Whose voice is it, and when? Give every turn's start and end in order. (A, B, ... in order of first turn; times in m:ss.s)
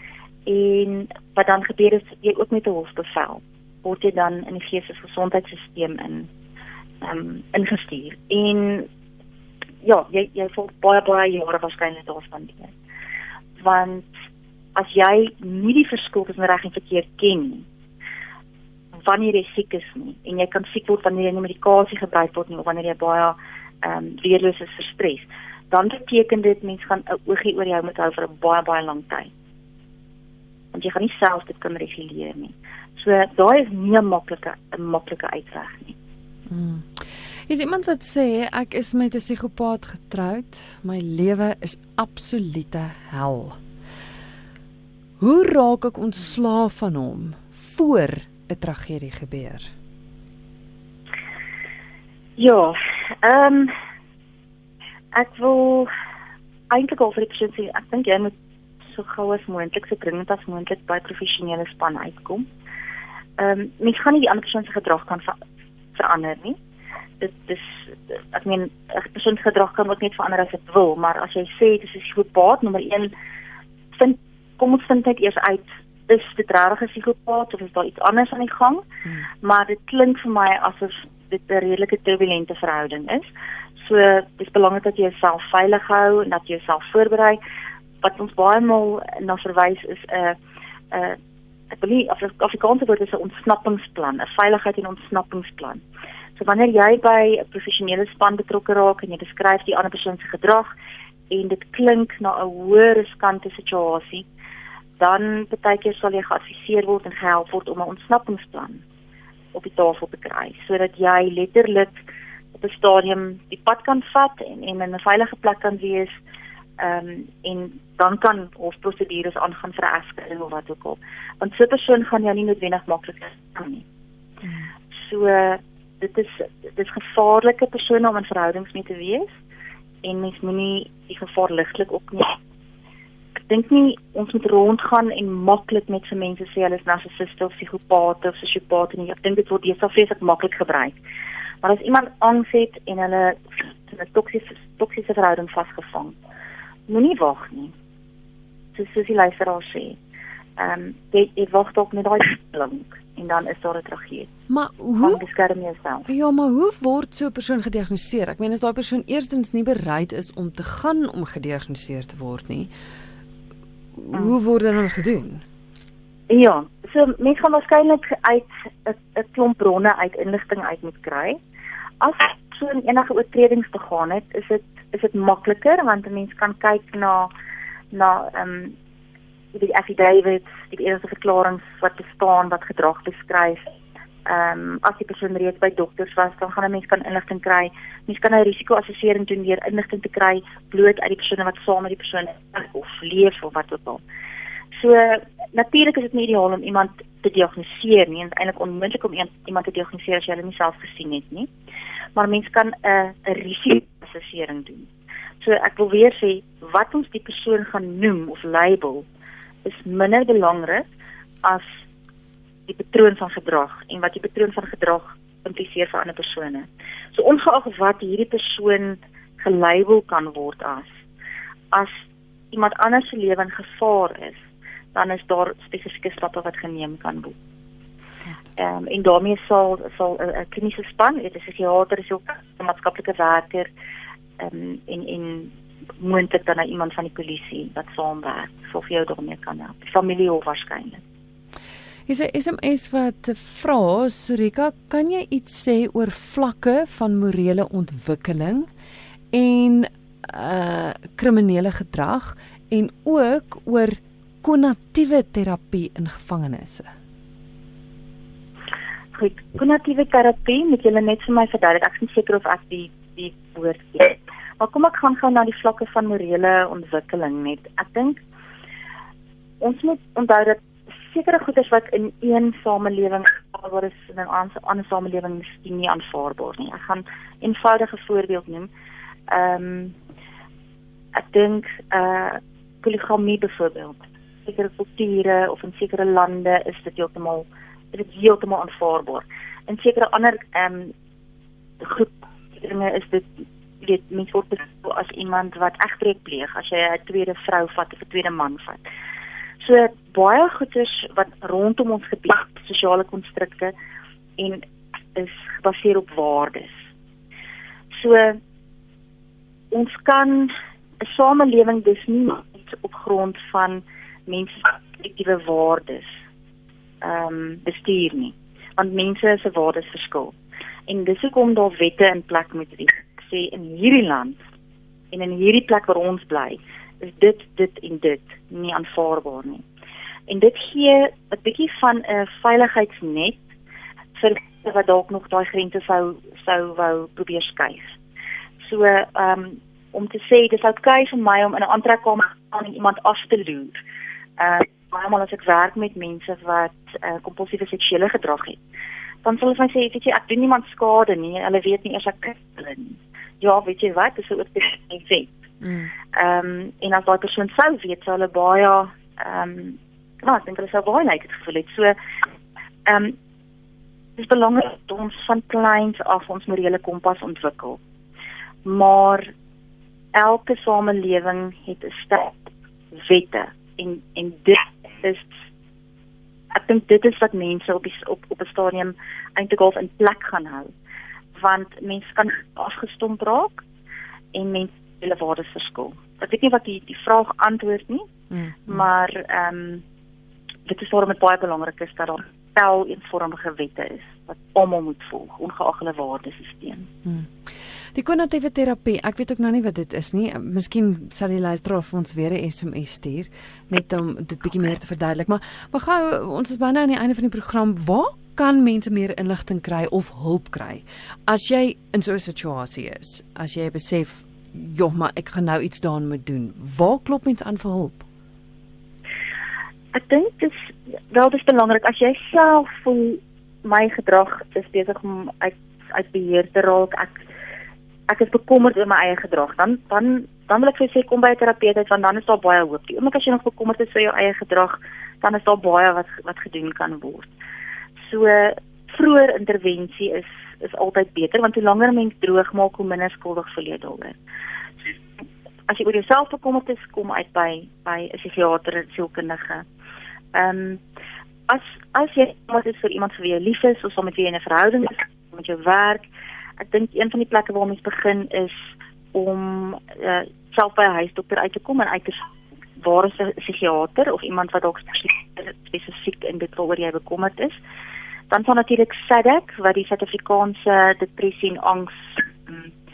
0:00.4-0:06.3 A
0:07.0-0:08.9 A
0:09.8-0:12.7 A
0:13.6-0:14.1 A
0:14.7-0:17.7 A
0:19.0-0:29.3 A
0:30.7-0:36.0 A
0:36.5-0:43.6 B
0:45.2-0:49.7 B
0:52.4-0:53.7 A
0:55.1-0:55.9 A
0:56.7-1:02.4 A
1:03.4-1:05.4 A
1:05.9-1:06.6 A
1:07.2-1:13.1 A
1:13.9-1:18.8 A
1:19.4-1:27.4 A
1:28.0-1:30.4 A
1:30.9-1:31.2 A
1:31.7-1:35.8 A
1:36.4-1:40.7 A
1:41.3-1:44.3 A
1:45.0-1:48.8 A
1:49.5-1:52.0 A
1:52.5-1:56.2 A
1:56.8-2:03.8 A
2:04.4-2:04.7 B
2:04.9-2:09.4 A
2:10.0-2:12.4 A
2:13.4-2:21.0 A
2:21.6-2:26.2 A
2:26.9-2:27.7 A
2:28.7-2:30.0 A
2:30.6-2:34.3 A
2:34.5-2:35.2 B
2:35.0-2:36.1 A
2:36.1-2:42.7 B
2:44.0-2:45.4 B
2:46.3-2:51.4 A
2:52.0-2:57.3 A
2:57.9-2:58.8 A
2:59.5-3:03.7 A
3:04.2-3:14.0 A
3:14.7-3:21.5 A
3:22.2-3:29.0 A
3:29.6-3:30.9 A
3:31.4-3:31.8 A
3:32.7-3:40.9 A
3:41.7-3:47.4 A
3:48.6-3:53.7 A
3:54.4-4:01.0 A
4:02.1-4:08.7 B
4:09.3-4:16.9 B
4:19.1-4:28.2 A
4:29.6-4:38.7 A
4:39.3-4:40.0 A
4:41.1-4:50.9 A
4:51.8-4:58.8 A
4:59.6-5:03.7 A
5:04.4-5:04.6 A
5:05.1-5:06.9 A
5:07.9-5:08.4 A
5:09.7-5:16.1 A
5:17.0-5:20.4 A
5:20.9-5:24.4 A
5:25.1-5:29.6 A
5:30.3-5:33.4 A
5:34.2-5:37.9 A
5:38.6-5:43.8 A
5:44.4-5:48.6 A
5:49.2-5:55.4 A
5:55.6-5:55.9 B
5:56.1-6:02.0 A
6:02.9-6:03.2 A
6:04.2-6:07.8 A
6:08.6-6:09.3 A
6:10.1-6:15.4 A
6:16.5-6:20.7 A
6:21.4-6:23.6 A
6:24.3-6:28.1 A
6:28.3-6:28.8 B
6:28.6-6:29.8 A
6:30.6-6:36.9 A
6:37.0-6:37.3 B
6:37.9-6:58.0 B
6:59.9-7:07.2 A
7:08.1-7:17.3 A
7:18.0-7:24.2 A
7:24.8-7:29.6 A
7:30.3-7:30.8 A
7:31.5-7:36.1 A
7:36.6-7:47.6 A
7:48.3-7:52.7 A